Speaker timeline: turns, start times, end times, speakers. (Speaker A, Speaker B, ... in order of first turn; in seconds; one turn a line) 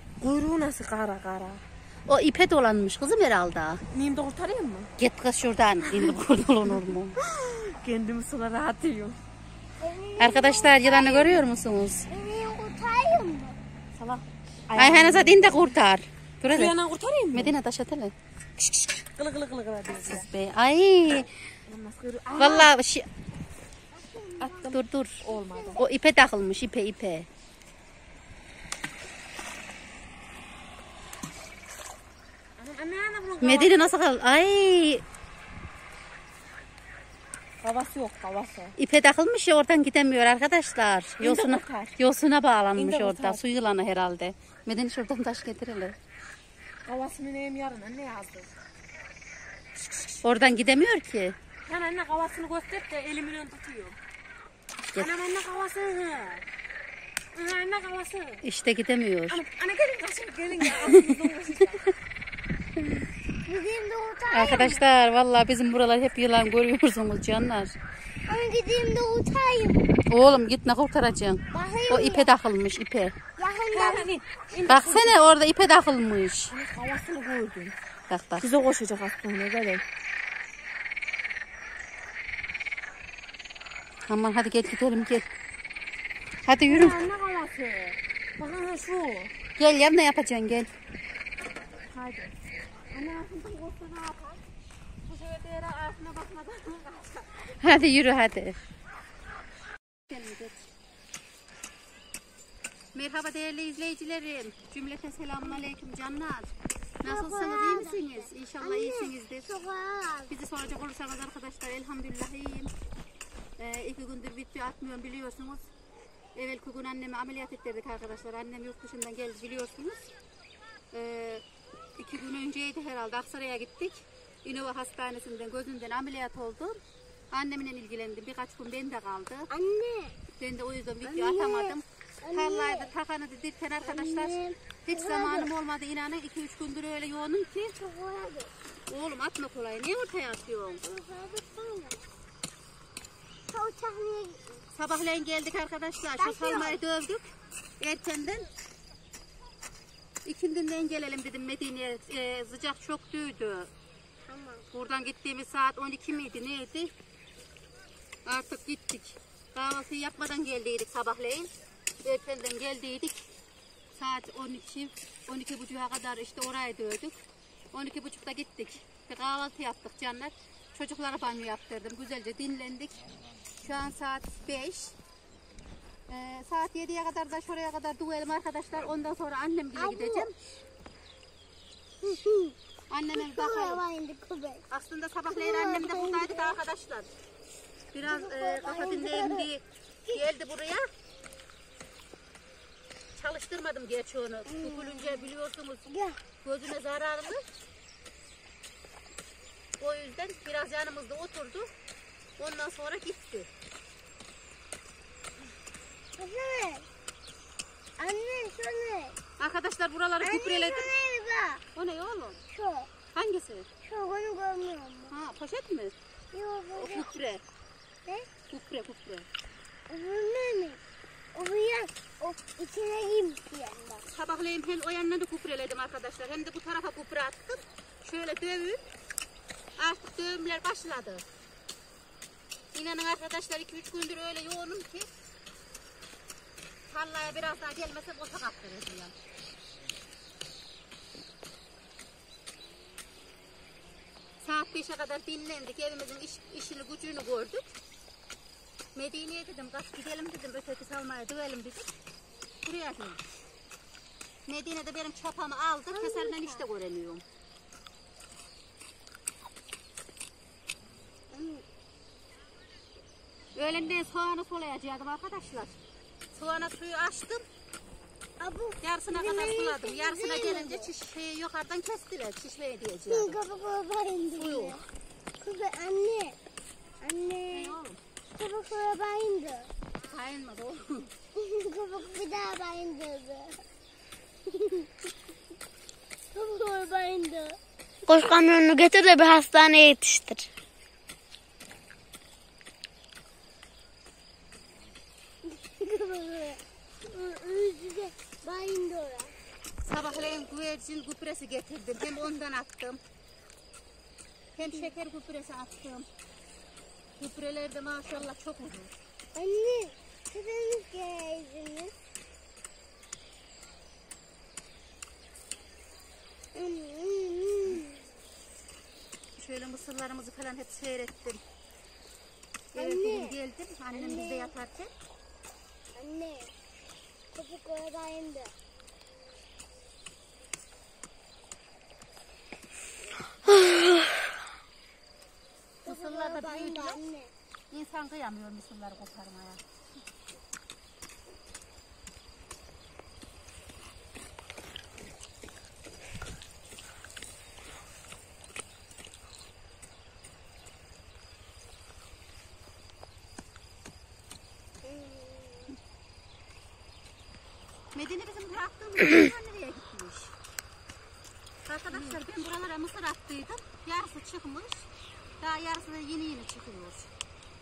Speaker A: 0.2-1.6
Speaker B: 2.1-3.8
Speaker A: 3.9-4.9
Speaker B: 5.0-7.1
Speaker A: 7.2-9.2
Speaker C: 9.8-11.4
Speaker B: 10.2-12.1
Speaker C: 12.1-13.6
Speaker A: 14.0-15.7
Speaker B: 14.8-16.8
Speaker A: 16.5-17.6
Speaker B: 17.3-18.1
Speaker A: 18.6-20.3
Speaker B: 20.0-21.3
Speaker A: 21.7-22.7
Speaker B: 22.4-23.1
Speaker C: 23.9-24.7
Speaker A: 24.4-25.9
Speaker B: 24.7-25.2
Speaker C: 25.3-25.8
Speaker B: 25.8-27.3
Speaker A: 32.6-33.9
Speaker B: 33.4-35.0
Speaker A: 37.6-38.8
Speaker B: 38.8-46.0
Speaker A: 41.2-41.9
Speaker A: 42.8-43.4
Speaker A: 46.9-48.5
Speaker B: 50.2-51.4
Speaker A: 51.7-54.0
Speaker A: 55.0-56.4
Speaker A: 57.4-58.4
Speaker B: 58.5-59.4
Speaker A: 59.3-61.9
Speaker B: 60.6-61.3
Speaker C: 63.5-64.8
Speaker B: 64.3-67.7
Speaker C: 68.3-69.9
Speaker B: 70.1-73.1
Speaker C: 71.5-72.3
Speaker C: 73.4-74.1
Speaker A: 73.7-75.4
Speaker B: 74.7-76.5
Speaker A: 76.5-77.8
Speaker B: 78.1-78.5
Speaker A: 78.4-79.8
Speaker B: 84.1-85.2
Speaker B: 86.5-87.0
Speaker A: 86.6-89.3
Speaker B: 89.6-90.7
Speaker A: 91.9-92.3
Speaker B: 92.9-94.4
Speaker A: 95.1-97.5
Speaker B: 97.5-98.6
Speaker B: 100.1-100.6
Speaker B: 102.9-106.5
Speaker B: 107.0-109.5
Speaker C: 107.0-110.3
Speaker B: 110.3-112.7
Speaker B: 113.6-115.7
Speaker B: 116.3-120.1
Speaker B: 120.9-121.4
Speaker B: 122.0-126.8
Speaker B: 127.3-129.5
Speaker C: 129.5-130.2
Speaker B: 130.4-137.8
Speaker C: 131.0-132.9
Speaker C: 133.8-135.5
Speaker C: 137.8-138.5
Speaker B: 138.9-140.8
Speaker C: 140.8-142.0
Speaker C: 143.5-144.6
Speaker B: 144.7-148.5
Speaker C: 146.2-146.8
Speaker B: 150.2-153.7
Speaker C: 154.3-154.6
Speaker B: 154.7-156.9
Speaker B: 158.3-161.5
Speaker B: 162.1-163.2
Speaker B: 164.0-167.2
Speaker B: 167.7-173.0
Speaker B: 173.6-174.9
Speaker B: 176.1-180.3
Speaker C: 179.8-180.3
Speaker C: 182.0-182.6
Speaker B: 182.9-183.8
Speaker C: 183.1-184.6
Speaker B: 184.7-187.1
Speaker C: 185.3-186.6
Speaker B: 187.9-190.9
Speaker C: 188.0-189.5
Speaker B: 193.2-195.8
Speaker C: 194.5-195.3
Speaker C: 195.9-196.2
Speaker B: 196.4-197.4
Speaker B: 199.8-201.7
Speaker B: 202.4-203.5
Speaker C: 206.2-206.8
Speaker C: 208.0-209.2
Speaker B: 209.4-210.9
Speaker C: 210.2-211.6
Speaker B: 211.8-212.4
Speaker C: 212.5-212.9
Speaker B: 213.1-213.7
Speaker C: 213.9-215.1
Speaker B: 215.1-215.9
Speaker C: 216.3-217.1
Speaker B: 216.8-217.4
Speaker B: 218.5-219.3
Speaker C: 219.9-220.8
Speaker C: 221.3-224.0
Speaker B: 224.1-228.8
Speaker B: 229.8-231.2
Speaker B: 232.7-235.1
Speaker B: 236.9-239.1
Speaker B: 244.4-247.7
Speaker B: 248.9-251.9
Speaker B: 252.7-253.2
Speaker B: 254.5-257.2
Speaker C: 255.9-256.6
Speaker C: 261.3-261.6
Speaker B: 263.6-265.8
Speaker B: 266.3-267.4
Speaker C: 268.4-270.9
Speaker B: 268.8-273.4
Speaker C: 273.1-274.8
Speaker B: 274.4-274.8
Speaker C: 275.4-276.4
Speaker C: 277.0-277.8
Speaker B: 277.5-278.0
Speaker C: 278.4-279.7
Speaker B: 280.0-281.1
Speaker C: 281.4-283.6
Speaker C: 284.5-284.9
Speaker C: 286.3-287.6
Speaker D: 288.1-290.5
Speaker C: 295.5-299.3
Speaker B: 299.9-303.0
Speaker B: 304.6-306.1
Speaker C: 304.6-304.9
Speaker B: 307.2-308.9
Speaker C: 309.4-311.9
Speaker C: 316.6-317.9
Speaker B: 319.4-321.4
Speaker B: 322.7-324.9
Speaker C: 322.8-323.4
Speaker C: 323.9-324.5
Speaker C: 325.9-326.5
Speaker C: 327.3-328.5
Speaker D: 333.5-334.0
Speaker C: 335.8-337.3
Speaker B: 335.9-337.0
Speaker B: 337.7-339.6
Speaker C: 354.8-355.7
Speaker B: 357.9-360.3
Speaker B: 361.7-364.9
Speaker B: 365.4-367.1